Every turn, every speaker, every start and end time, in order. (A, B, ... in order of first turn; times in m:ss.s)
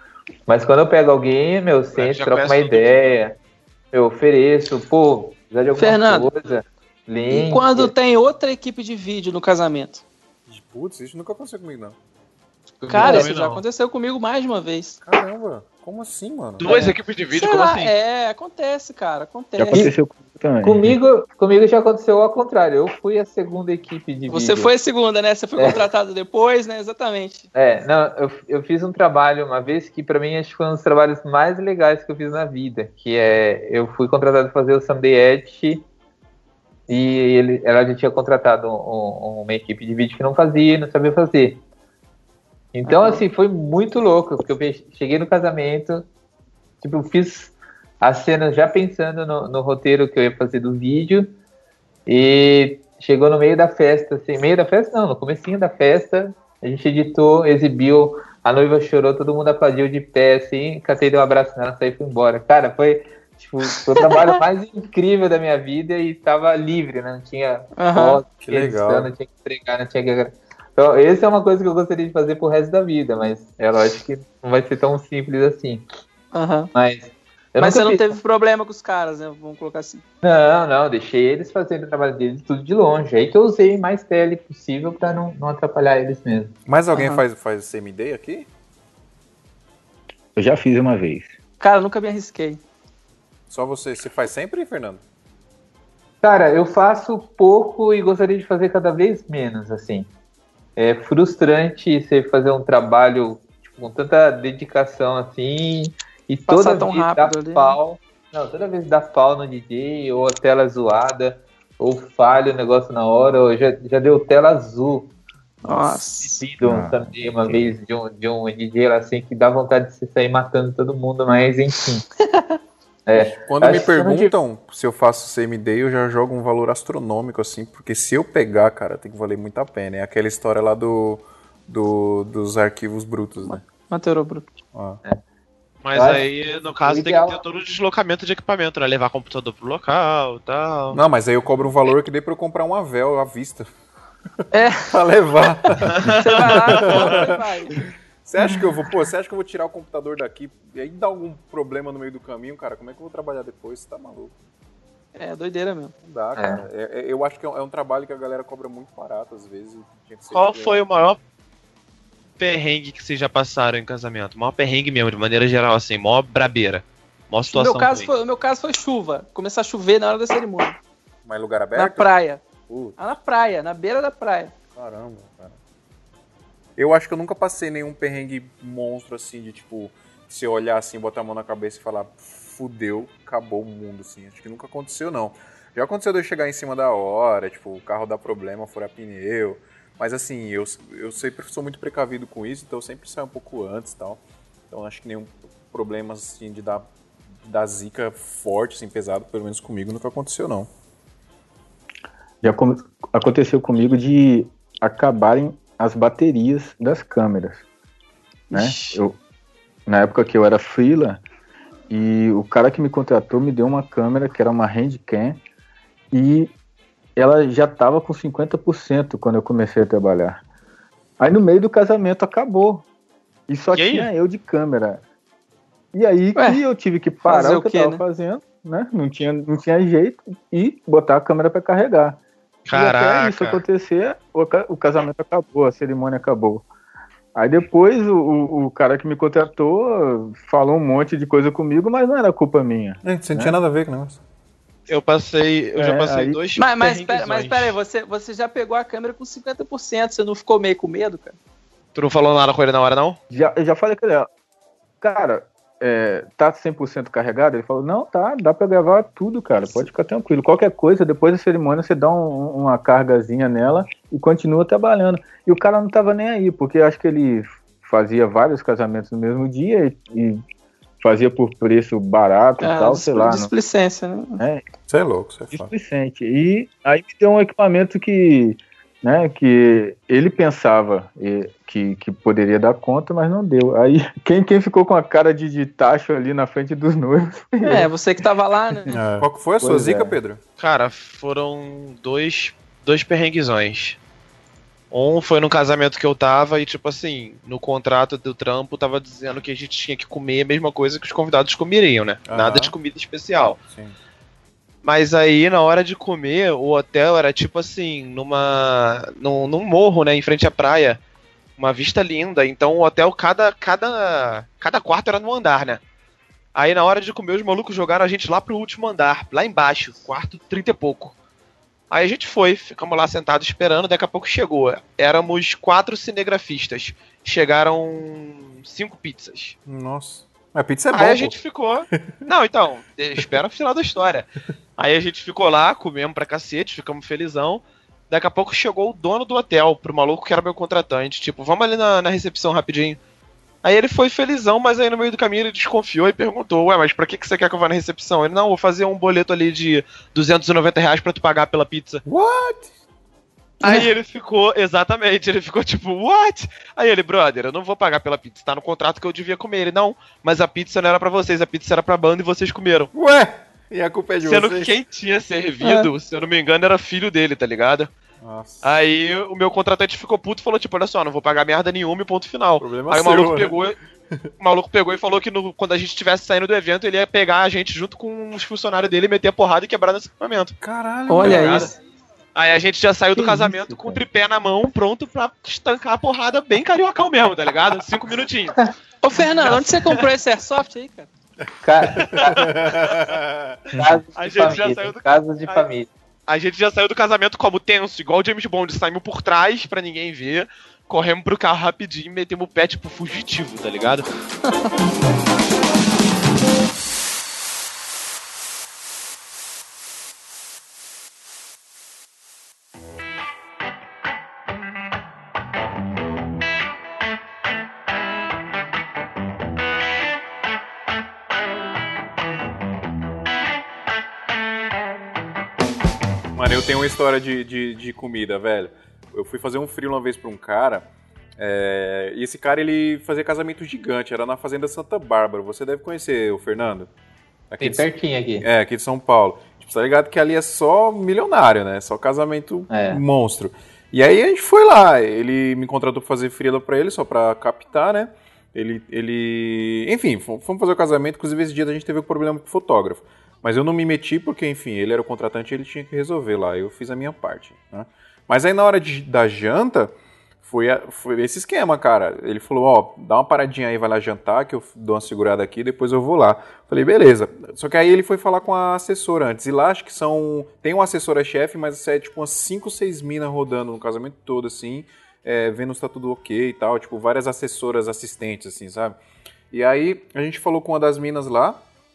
0:00.5-0:03.4 A
0:01.9-0:03.2 B
0:03.9-0:07.9 A
0:05.8-0:06.3 C
0:07.3-0:10.0 C
0:10.5-0:12.0 D
0:12.8-0:13.3 A
0:12.9-0:13.6 B
0:12.9-0:15.0 C
0:15.0-0:16.7 D
0:16.6-0:17.9 B
0:16.7-0:17.0 A
0:17.3-0:19.9 C
0:19.6-0:21.0 E
0:20.6-0:24.7 A
0:24.3-0:27.5 C
0:25.6-0:25.8 A
0:27.6-0:35.9 A
0:36.9-0:41.6 A
0:42.7-0:46.0 A
0:42.9-0:43.2 C
0:46.8-0:51.3 A
0:52.1-1:15.8 A
1:04.0-1:04.4 C
1:07.8-1:08.2 C
1:08.4-1:09.1 D
1:16.3-1:16.7 C
1:16.8-1:18.2 A
1:17.6-1:20.0 C
1:20.2-1:26.6 A
1:26.7-1:28.5 D
1:26.9-1:27.2 C
1:30.4-1:31.3 E
1:31.6-1:32.6 C
1:33.5-1:35.0 D
1:36.2-1:40.1 A
1:40.8-1:55.1 A
1:46.5-1:47.8 C
1:55.7-1:56.4 C
1:55.8-2:02.0 A
1:56.6-1:57.1 E
2:02.2-2:02.6 C
2:03.1-2:04.3 A
2:03.4-2:13.6 D
2:13.4-2:14.5 C
2:14.7-2:15.0 D
2:15.8-2:21.0 B
2:15.9-2:16.3 A
2:16.8-2:17.4 A
2:20.9-2:23.7 D
2:24.5-2:25.0 C
2:24.9-2:34.3 D
2:25.9-2:27.3 B
2:26.0-2:27.8 C
2:35.2-2:36.0 C
2:36.0-2:40.8 D
2:36.4-2:36.6 A
2:40.3-2:41.2 B
2:42.4-2:48.1 B
2:47.5-2:50.8 C
2:51.2-2:52.1 D
2:51.8-2:52.4 C
2:52.7-2:53.0 D
2:53.0-2:54.5 C
2:54.8-2:55.6 D
2:56.8-3:16.9 D
3:17.4-3:20.7 D
3:22.4-3:27.6 E
3:28.5-3:29.0 C
3:28.5-3:29.2 E
3:29.9-3:31.2 E
3:31.9-3:35.4 E
3:36.1-3:36.5 E
3:37.2-3:40.4 E
3:41.2-3:42.9 E
3:43.5-3:45.0 E
3:43.7-3:44.1 B
3:45.9-3:52.2 E
3:47.2-3:48.0 C
3:52.7-3:53.6 B
3:52.7-3:56.6 E
3:57.4-4:03.6 E
4:03.0-4:04.2 D
4:04.9-4:07.8 B
4:05.8-4:06.4 E
4:06.6-4:11.4 C
4:12.0-4:13.2 B
4:13.3-4:14.3 E
4:15.0-4:30.4 E
4:31.0-4:33.5 E
4:32.6-4:34.4 C
4:34.9-4:35.7 D
4:35.5-4:47.9 E
4:47.6-4:49.0 C
4:48.9-4:50.2 E
4:48.9-4:50.4 D
4:50.6-4:54.0 B
4:54.9-5:03.6 B
5:02.3-5:02.7 D
5:03.7-5:04.0 D
5:04.8-5:11.0 B
5:11.6-5:15.8 B
5:16.6-5:21.2 B
5:21.9-5:29.6 B
5:29.7-5:31.4 D
5:30.9-5:43.0 B
5:43.6-5:52.0 B
5:52.0-5:52.7 D
5:53.6-5:53.9 C
5:53.6-6:02.9 B
6:02.9-6:04.8 D
6:04.2-6:07.9 B
6:05.6-6:05.9 C
6:08.2-6:08.6 D
6:08.6-6:13.8 B
6:12.6-6:13.6 D
6:14.4-6:20.6 B
6:20.6-6:21.8 D
6:21.1-6:21.8 C
6:21.2-6:21.7 B
6:22.4-6:28.6 B
6:23.2-6:24.0 E
6:29.0-6:31.1 C
6:29.5-6:30.0 B
6:31.6-6:32.3 A
6:32.0-6:33.1 B
6:32.0-6:33.6 D
6:33.7-6:35.9 A
6:34.2-6:35.7 B
6:36.3-6:44.1 B
7:06.4-7:10.9 D
7:11.4-7:16.9 D
7:17.5-7:17.9 D
7:17.6-7:18.5 A
7:18.4-7:59.0 D
7:22.7-7:23.0 A
7:59.5-8:01.6 D